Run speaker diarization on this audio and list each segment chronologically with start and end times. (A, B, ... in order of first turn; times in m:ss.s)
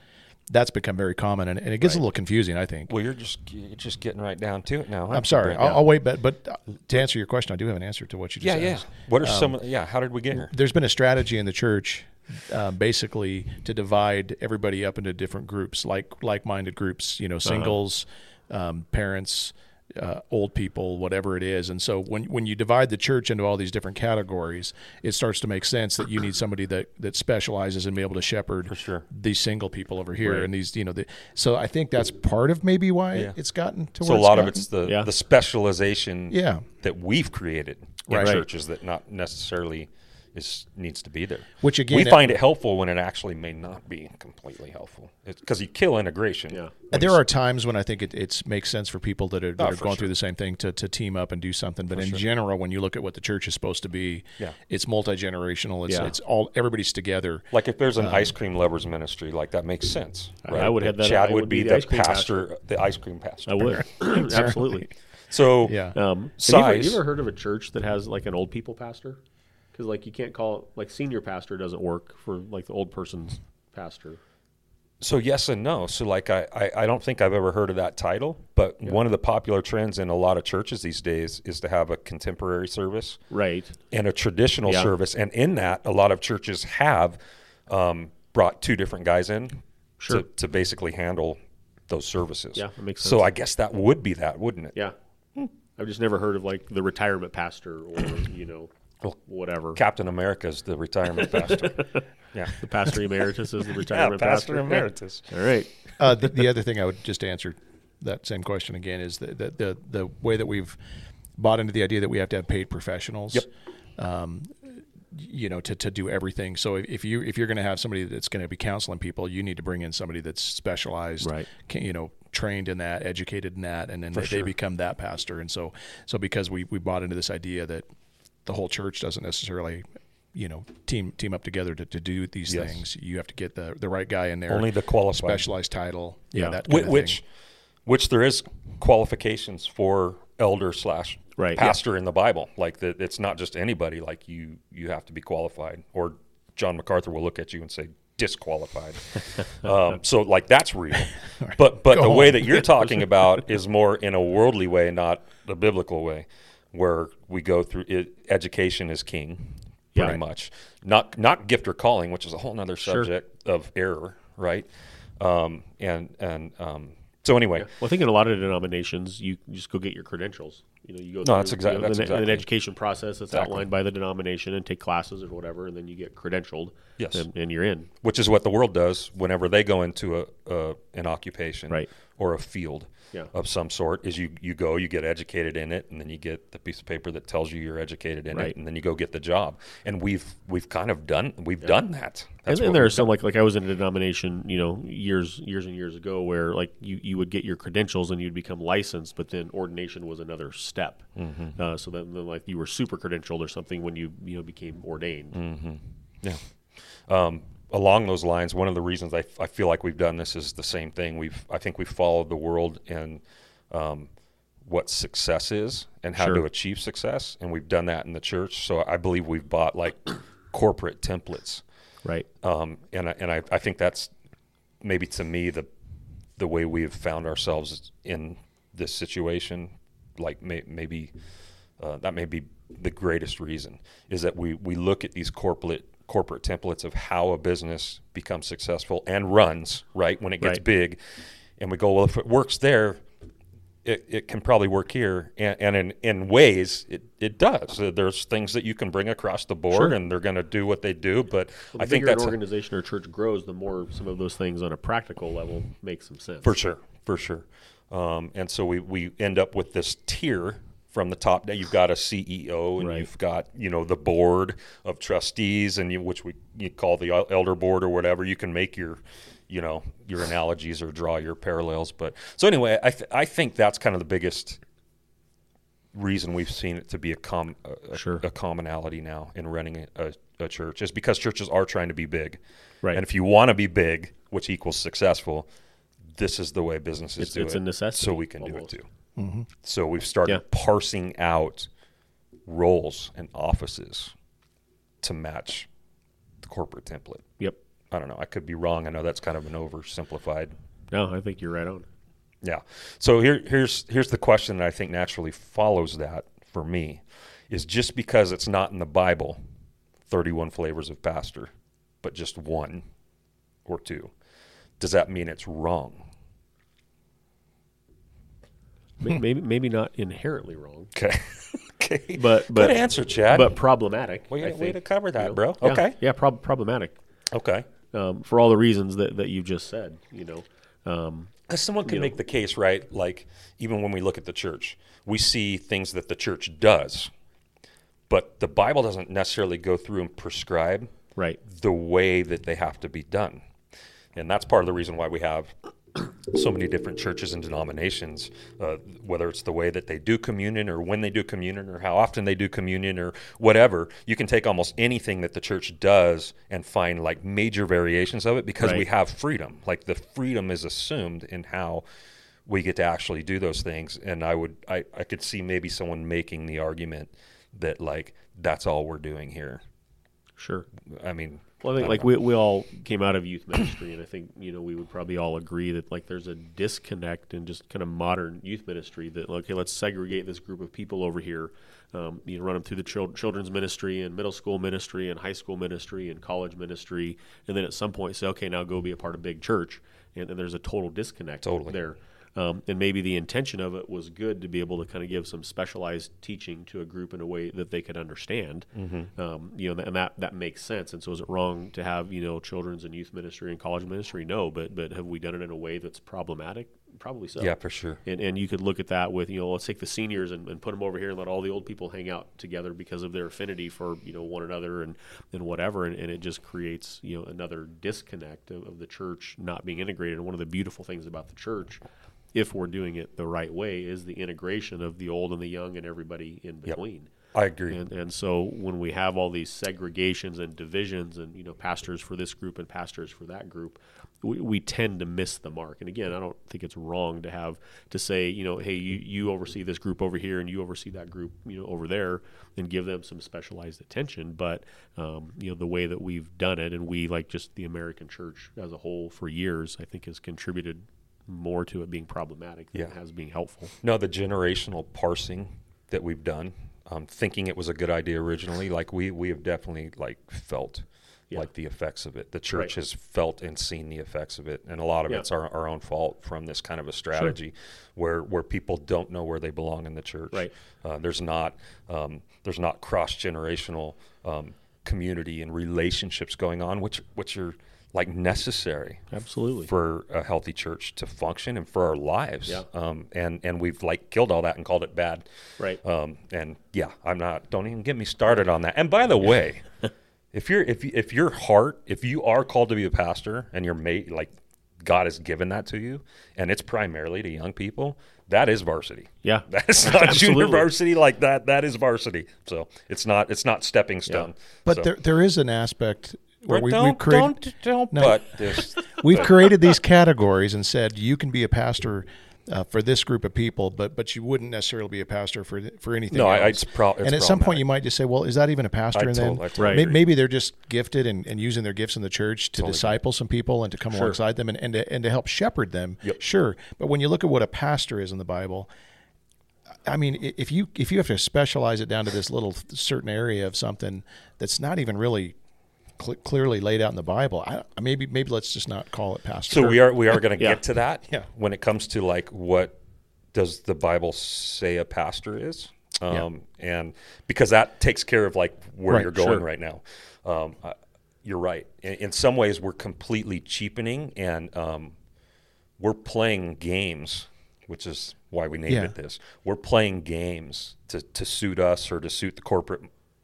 0:00.5-0:02.9 A
0:02.9-0:05.9 B
0:05.1-0:09.6 A
0:08.4-0:10.5 B
0:10.3-0:34.7 A
0:17.4-0:17.8 C
0:28.7-0:29.0 B
0:30.2-0:30.5 C
0:34.0-0:47.1 B
0:34.8-0:35.1 C
0:36.3-0:36.6 A
0:38.1-0:38.4 A
0:38.2-0:38.4 C
0:41.6-0:42.4 A
0:46.5-0:46.8 C
0:46.9-0:57.5 A
0:49.6-0:50.1 B
0:51.9-0:52.2 B
0:55.9-0:56.1 C
0:57.5-1:03.8 B
0:58.0-0:58.3 A
1:00.4-1:02.5 C
1:03.5-1:04.9 C
1:04.0-1:04.9 A
1:05.3-1:07.0 B
1:05.6-1:06.0 A
1:05.9-1:09.2 C
1:09.7-1:14.2 C
1:15.0-1:23.2 B
1:23.3-1:23.8 C
1:23.9-1:34.8 B
1:24.6-1:24.9 C
1:30.0-1:30.2 C
1:32.5-1:33.3 C
1:35.8-1:38.7 C
1:39.2-1:39.8 C
1:39.7-1:43.0 B
1:41.2-1:42.0 C
1:42.6-1:45.7 C
1:43.7-1:45.3 B
1:46.0-1:50.8 A
1:51.4-1:53.4 A
1:54.0-2:07.8 A
2:01.2-2:01.5 C
2:04.1-2:04.5 B
2:08.4-2:17.2 A
2:12.5-2:12.8 B
2:14.5-2:15.5 B
2:16.6-2:17.2 B
2:17.8-2:44.7 B
2:21.4-2:21.8 C
2:31.4-2:32.7 A
2:42.8-2:43.1 C
2:45.2-2:47.7 B
2:47.6-2:57.9 C
2:51.2-2:52.4 B
2:53.3-2:53.6 B
2:57.0-2:57.2 B
2:58.0-3:13.1 B
3:12.5-3:21.0 C
3:21.2-3:21.6 B
3:21.6-3:25.4 C
3:25.3-3:26.4 B
3:27.1-3:34.1 B
3:34.6-3:41.6 B
3:36.2-3:36.4 C
3:42.4-3:44.1 B
3:44.8-3:45.7 B
3:46.4-3:51.1 B
3:51.8-4:01.0 B
4:01.6-4:03.0 B
4:03.8-4:12.4 B
4:09.7-4:10.0 C
4:11.7-4:16.5 C
4:16.4-4:34.6 B
4:22.8-4:23.1 C
4:35.9-4:42.4 B
4:37.9-4:38.2 C
4:42.9-4:45.5 B
4:46.2-4:48.8 B
4:47.2-4:48.7 C
4:49.2-4:49.5 A
4:49.6-4:51.7 B
4:52.5-4:54.1 B
4:55.0-4:55.7 B
4:56.4-4:57.2 B
4:57.9-5:00.5 B
5:00.9-5:01.9 C
5:02.4-5:09.4 B
5:10.1-5:11.5 B
5:12.0-5:12.8 B
5:13.6-5:14.1 B
5:14.8-5:16.0 B
5:19.0-5:20.9 C
5:20.9-5:23.6 B
5:22.1-5:27.0 C
5:24.3-5:26.0 B
5:27.3-5:27.6 B
5:27.9-5:31.3 C
5:31.5-5:37.1 B
5:31.8-5:32.2 C
5:38.1-5:40.9 B
5:41.4-5:43.4 B
5:44.1-6:01.8 B
5:58.6-5:58.8 C
6:02.4-6:09.6 B
6:10.4-6:10.7 C
6:10.9-6:12.1 B
6:11.6-6:47.5 C
6:31.4-6:31.8 B
6:38.7-6:39.1 B
6:47.4-6:48.0 B
6:48.0-7:01.8 C
7:02.3-7:07.1 C
7:07.3-7:07.8 B
7:07.7-7:33.7 C
7:33.8-7:59.1 B
7:59.1-7:59.7 C
7:59.7-8:05.2 B
8:05.8-8:09.6 B
8:10.3-8:24.9 B
8:19.2-8:20.7 C
8:24.6-8:27.4 A
8:26.5-8:29.4 B
8:27.9-8:48.7 A
8:36.1-8:37.6 B
8:38.9-8:40.0 B
8:39.6-8:39.8 C
8:42.6-8:43.0 B
8:43.9-8:44.2 C
8:49.8-8:55.3 A
8:56.0-8:59.9 A
8:59.5-9:02.8 B
9:03.3-9:14.9 B
9:09.1-9:09.4 C
9:15.8-9:22.9 B
9:18.7-9:18.9 A